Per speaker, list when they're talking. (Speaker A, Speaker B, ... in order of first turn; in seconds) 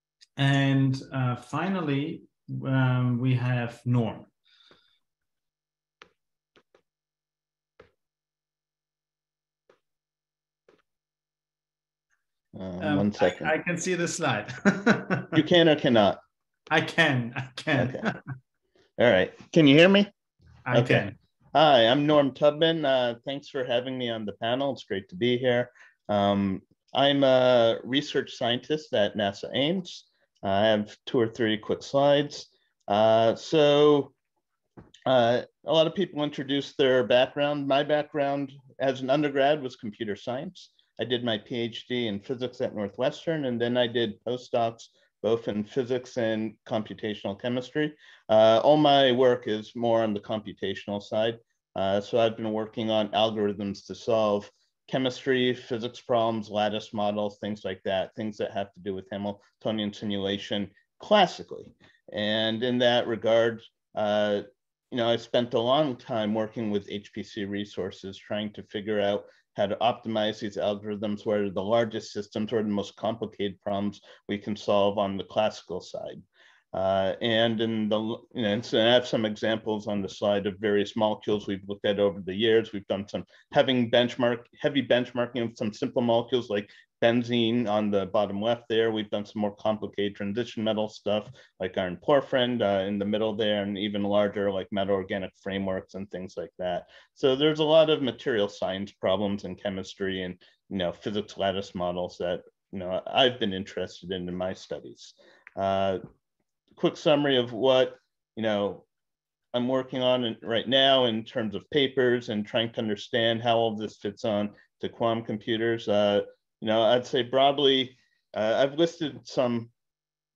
Speaker A: 0.4-4.3, 12.8-15.4, 16.7-18.2, 20.7-21.1
Speaker B: 12.5-13.5, 15.3-16.2, 17.7-18.1, 19.0-20.1, 20.7-34.1, 35.0-106.0, 106.8-108.8, 109.5-119.7